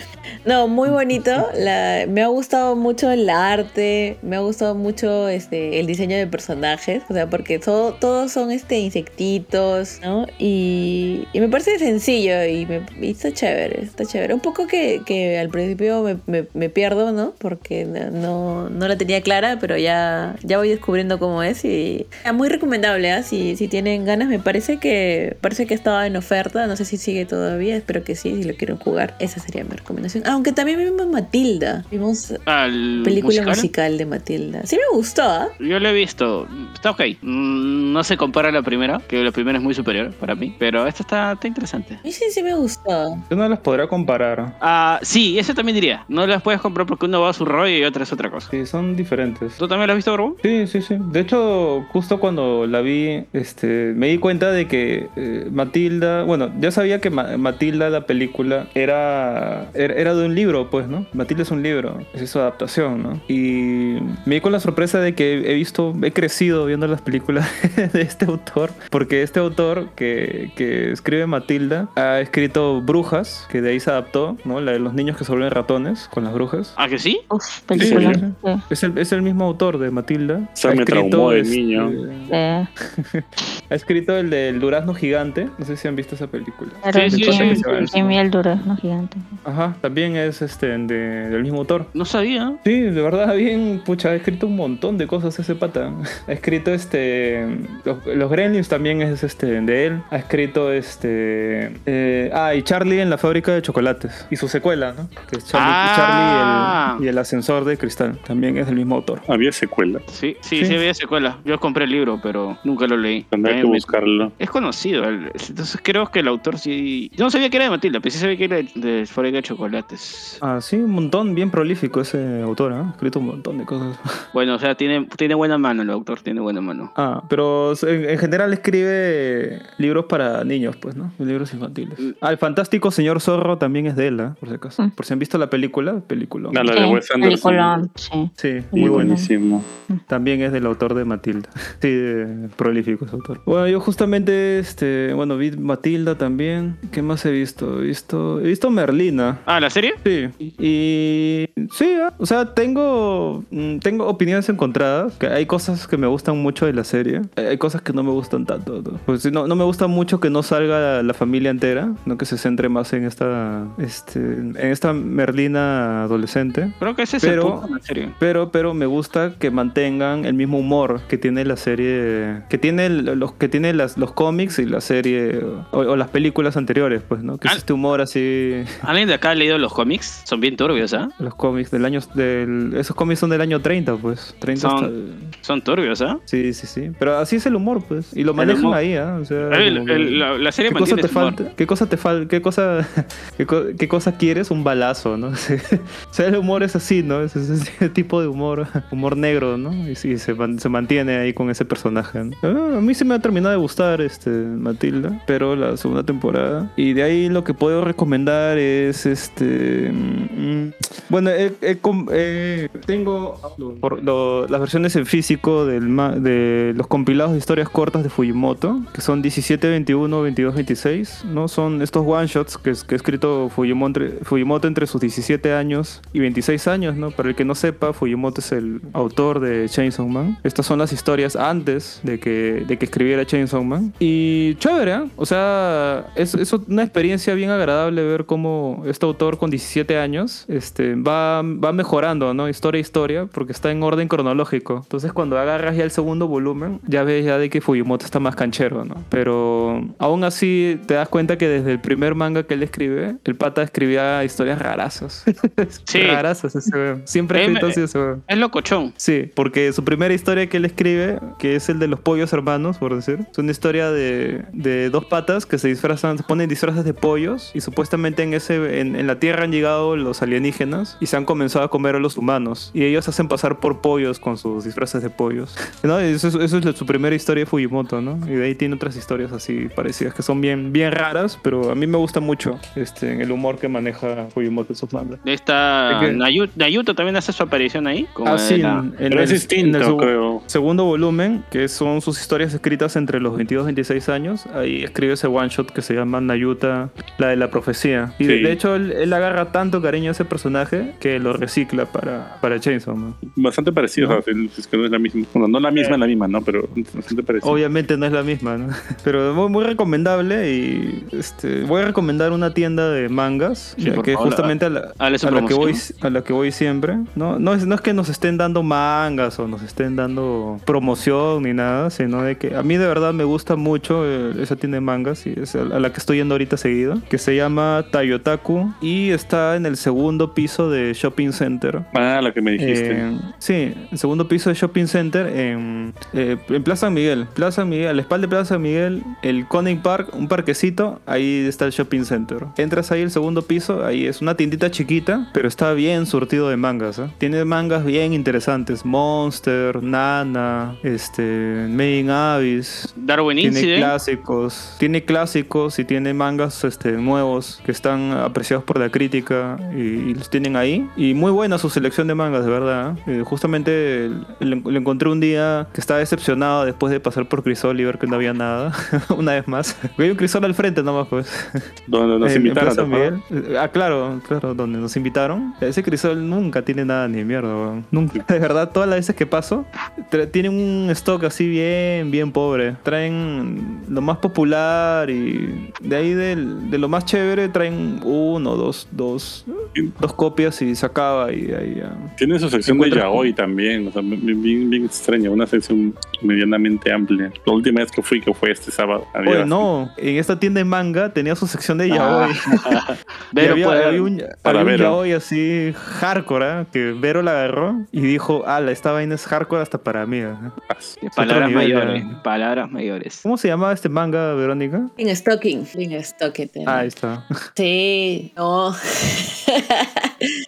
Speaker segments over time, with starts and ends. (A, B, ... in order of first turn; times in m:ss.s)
0:00.4-0:32.4 A
0:32.4-0:33.7 B
0:33.0-0:35.5 A
0:35.6-0:42.0 B
0:42.0-0:43.2 A
0:43.3-0:44.6 C
0:44.6-0:48.5 B
0:48.5-0:49.6 C
0:49.6-0:50.4 B
0:50.4-1:16.8 C
1:16.8-1:17.2 B
1:17.3-1:18.6 D
1:17.7-1:22.3 C
1:17.8-1:18.2 E
1:20.6-1:22.0 E
1:22.3-1:22.7 D
1:23.0-1:28.2 C
1:26.8-1:29.3 D
1:26.9-1:27.9 B
1:29.4-1:31.9 C
1:31.9-1:32.6 B
1:32.6-1:49.2 C
1:45.5-1:47.0 B
1:49.3-1:50.0 E
1:50.1-2:00.4 B
1:53.3-1:54.3 E
2:00.4-2:04.2 C
2:04.3-2:06.9 B
2:06.9-2:16.8 C
2:16.5-2:17.9 E
2:16.7-2:19.3 D
2:18.4-2:19.2 C
2:18.7-2:19.6 E
2:20.1-2:29.4 C
2:29.4-2:30.0 B
2:30.0-2:58.8 C
2:46.8-2:48.2 B
2:58.8-3:01.1 B
3:01.2-3:05.3 C
3:04.6-3:06.2 B
3:06.3-4:18.3 C
3:08.4-3:08.8 B
3:09.4-3:11.4 B
4:15.9-4:16.2 B
4:17.3-4:18.9 B
4:19.0-4:45.2 C
4:45.2-4:48.9 B
4:45.9-4:46.2 C
4:48.2-5:03.2 C
4:49.1-4:50.4 E
4:58.2-4:58.6 E
5:03.3-5:07.6 E
5:07.4-5:31.9 C
5:13.8-5:15.8 B
5:31.9-5:33.0 E
5:32.6-6:11.6 C
5:53.0-5:54.0 B
6:11.9-6:13.1 E
6:12.2-6:32.1 C
6:32.2-6:39.6 E
6:32.6-6:33.3 C
6:39.2-6:42.6 C
6:41.9-6:44.1 B
6:43.4-6:50.5 C
6:44.4-6:45.0 E
6:50.7-6:51.0 E
6:51.0-6:53.2 B
6:51.1-6:52.2 C
6:53.2-6:54.9 C
6:55.0-6:56.9 A
6:56.6-6:57.3 C
6:57.6-7:00.3 A